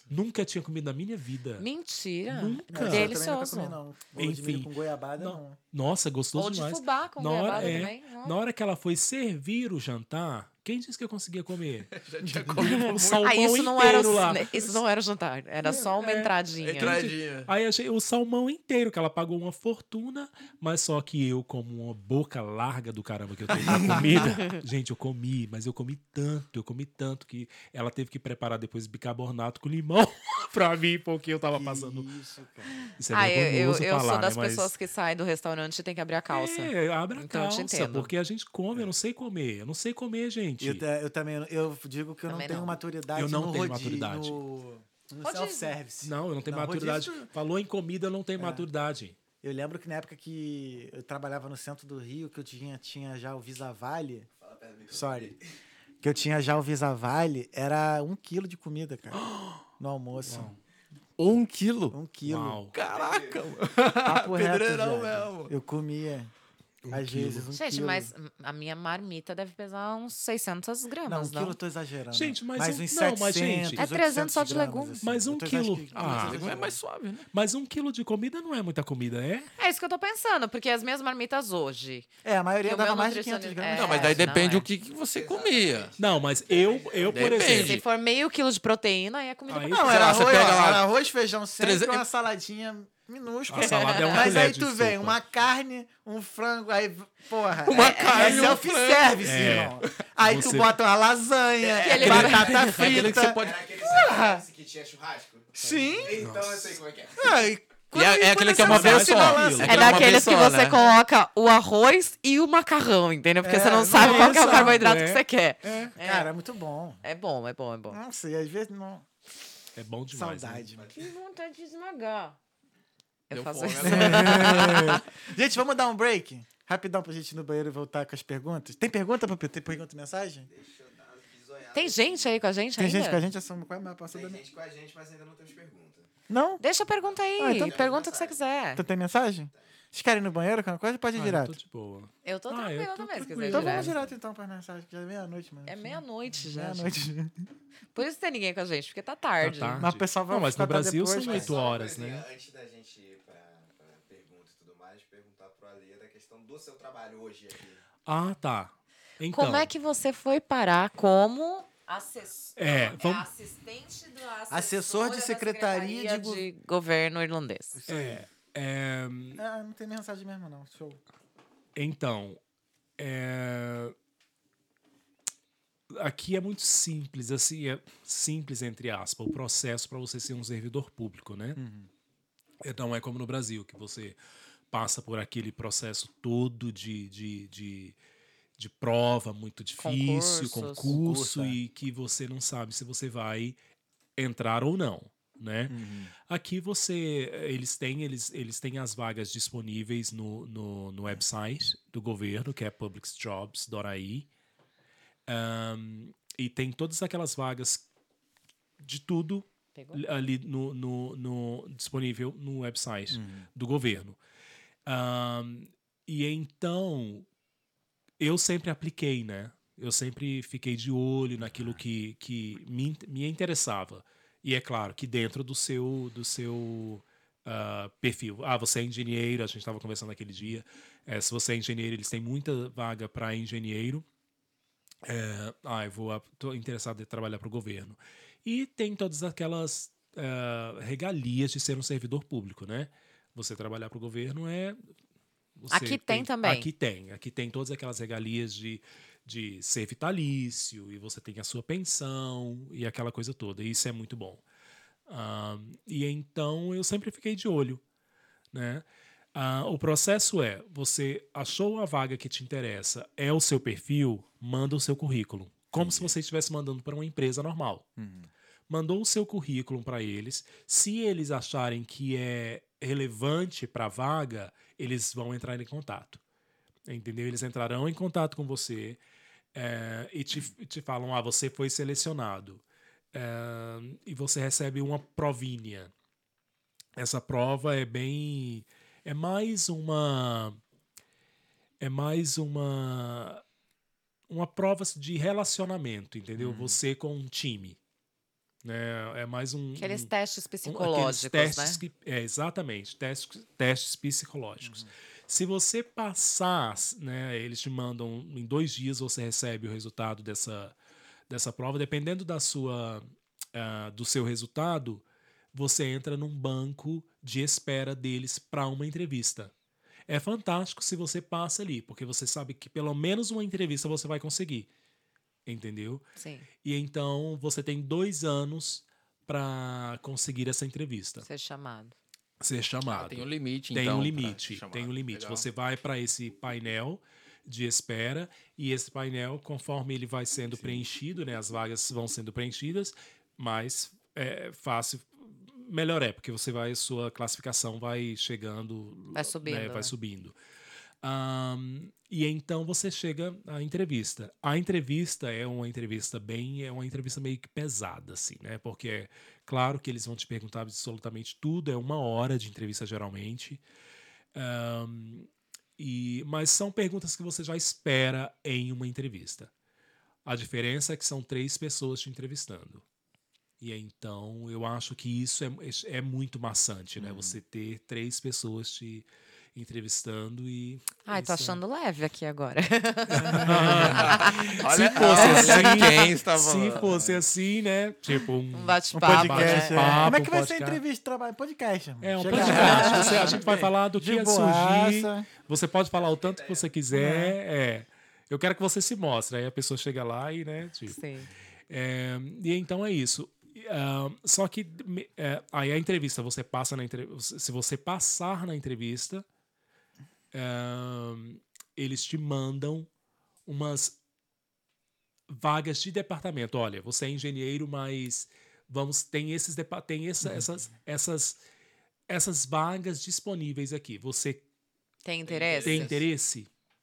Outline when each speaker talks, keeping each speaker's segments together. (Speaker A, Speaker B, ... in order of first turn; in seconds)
Speaker A: 0.1-1.7, 2.3-3.2, 4.2-11.9, 12.6-14.8, 15.6-32.1, 33.0-34.7, 36.3-40.8, 43.1-44.4, 46.0-49.2, 59.2-59.6, 60.3-60.6, 62.2-62.7, 66.8-67.5, 72.1-73.8, 75.0-76.4, 77.3-79.5, 86.0-87.8, 89.5-90.3, 93.5-95.2, 99.2-100.8, 102.0-102.5, 106.2-106.8, 108.6-110.0, 113.9-115.9, 119.8-120.7, 141.1-144.0, 149.4-152.3, 158.1-159.7, 162.6-163.3, 167.9-169.4, 171.8-172.4, 173.0-173.9, 175.9-181.6, 182.6-184.2, 184.7-188.0, 188.6-193.6, 194.2-204.3, 205.3-207.8, 208.8-214.2, 214.9-217.3, 218.2-234.1, 235.0-244.9, 245.6-254.4, 255.1-257.8, 258.5-267.9, 268.7-276.2, 276.9-279.0, 279.5-282.6, 283.1-285.9, 287.0-290.6, 291.8-293.4, 294.3-297.8, 298.6-300.1, 300.6-310.8, 311.3-319.5, 320.1-324.7, 325.5-326.1, 326.6-331.3, 332.4-350.4, 351.0-363.6, 364.4-369.5, 370.3-372.8, 373.6-381.6, 383.1-390.8, 392.0-401.0, 401.7-409.3, 410.3-412.9, 413.5-414.0, 415.3-421.4, 422.1-424.4, 425.6-426.5
Speaker B: 1.6-3.8, 6.3-8.4, 12.6-17.0, 33.1-38.1, 42.3-42.8, 45.2-45.8, 67.5-71.6, 73.8-75.0, 79.6-82.1, 82.6-84.7, 87.4-90.5, 93.6-94.3, 97.7-98.6, 101.8-102.8, 109.7-116.3, 117.0-118.0, 120.9-122.4, 123.3-125.0, 131.7-133.2, 136.6-138.8, 142.2-143.9, 145.7-147.0, 147.9-149.9, 159.3-167.8, 189.8-191.0, 209.8-210.0, 245.7-246.7, 299.8-301.8, 326.2-326.5, 331.2-331.9, 349.1-349.9, 381.1-385.8, 388.5-390.1, 392.4-393.4, 400.9-401.3, 425.1-426.0
Speaker C: 2.7-5.6, 12.2-12.7, 23.6-24.3, 31.5-32.9, 40.6-47.3, 48.4-48.7, 49.4-54.3, 54.9-55.3, 56.0-59.2, 59.8-60.6, 61.9-62.6, 64.0-66.3, 66.9-68.1, 71.1-76.8, 82.2-84.6, 89.7-104.4, 105.5-106.4, 107.2-110.0, 113.4-114.8, 115.6-117.0, 117.9-119.1, 120.1-120.9, 123.8-130.5, 132.8-134.4, 136.3-136.6, 137.4-137.8, 138.8-141.5, 143.5-147.5, 149.8-151.6, 164.5-166.5, 167.8-168.2, 169.4-171.0, 181.6-181.9, 190.9-191.6, 195.7-196.1, 213.1-213.5, 268.0-268.3, 296.4-296.8, 304.6-304.9, 340.6-340.8, 377.0-377.4, 383.2-384.1, 388.9-395.3, 396.9-397.4
Speaker D: 11.9-13.4, 14.0-14.3, 16.6-17.5, 61.2-62.0, 62.7-65.5, 75.9-77.3, 83.7-85.9, 87.1-87.8, 89.9-90.9, 91.6-92.1, 97.7-99.9, 101.6-103.8, 107.9-110.8, 123.3-125.0, 332.9-335.4, 383.7-387.2, 392.3-393.7, 425.3-426.1
Speaker E: 54.4-55.4, 62.7-63.5, 85.1-87.5, 102.9-107.5, 120.7-121.1, 130.5-132.4, 134.1-136.1, 137.0-138.8, 151.2-157.8, 395.5-396.7